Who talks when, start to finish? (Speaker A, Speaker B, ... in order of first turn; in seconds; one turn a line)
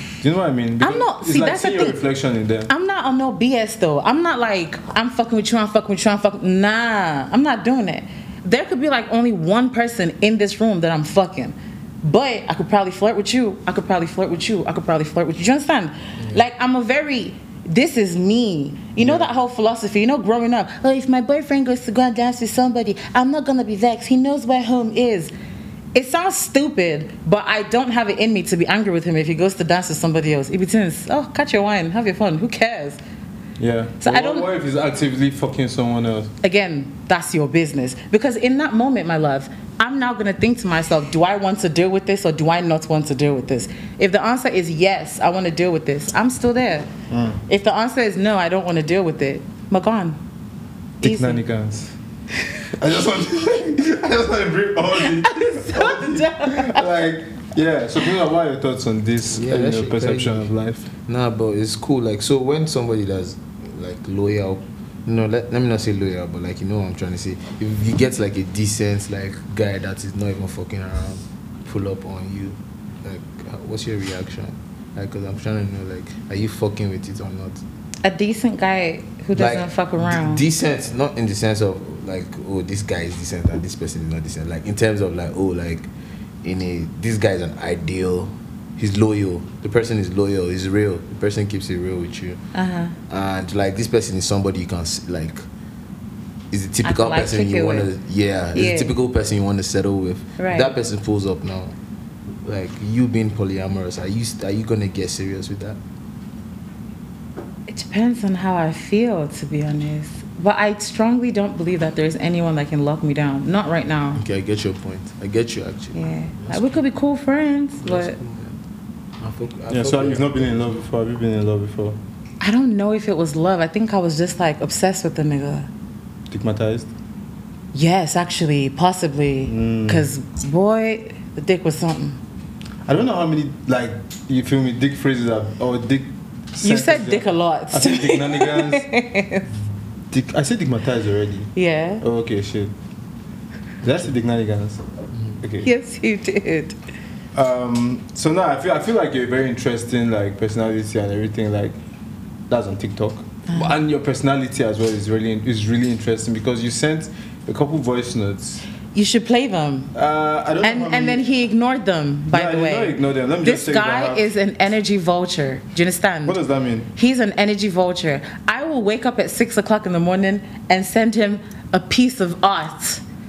Speaker A: 0.2-2.7
Speaker B: 0.8-2.0
Speaker B: 2.7-25.3
Speaker A: 19.0-19.3
Speaker B: 25.9-33.0
Speaker A: 33.6-36.3
Speaker B: 34.0-34.5
Speaker B: 36.4-46.9
Speaker A: 47.1-47.4
Speaker B: 47.5-50.2
Speaker A: 51.0-51.9
Speaker B: 51.0-51.4
Speaker A: 52.7-60.9
Speaker B: 55.0-56.9
Speaker C: 59.3-60.5
Speaker C: 61.0-77.6
Speaker B: 78.0-80.4
Speaker C: 79.3-85.9
Speaker C: 86.4-92.4
Speaker B: 92.5-92.9
Speaker C: 93.1-95.4
Speaker C: 96.5-101.8
Speaker B: 96.8-97.9
Speaker B: 98.5-98.9
Speaker B: 100.4-100.7
Speaker C: 102.4-105.8
Speaker B: 107.7-114.2
Speaker C: 114.1-116.8
Speaker B: 115.9-118.2
Speaker C: 117.8-118.6
Speaker C: 119.2-120.5
Speaker A: 119.7-122.0
Speaker B: 122.4-125.7
Speaker A: 126.3-126.9
Speaker B: 127.7-132.2
Speaker A: 129.5-130.1
Speaker A: 132.8-138.9
Speaker B: 136.6-139.5
Speaker A: 140.1-142.7
Speaker B: 141.5-142.0
Speaker A: 143.8-144.8
Speaker A: 145.4-145.7
Speaker B: 145.6-146.8
Speaker A: 147.3-151.8
Speaker A: 152.5-158.6
Speaker B: 153.5-153.8
Speaker B: 158.9-159.9
Speaker A: 159.9-161.2
Speaker B: 160.6-166.4
Speaker A: 162.3-164.3
Speaker A: 166.2-166.9
Speaker B: 167.0-173.0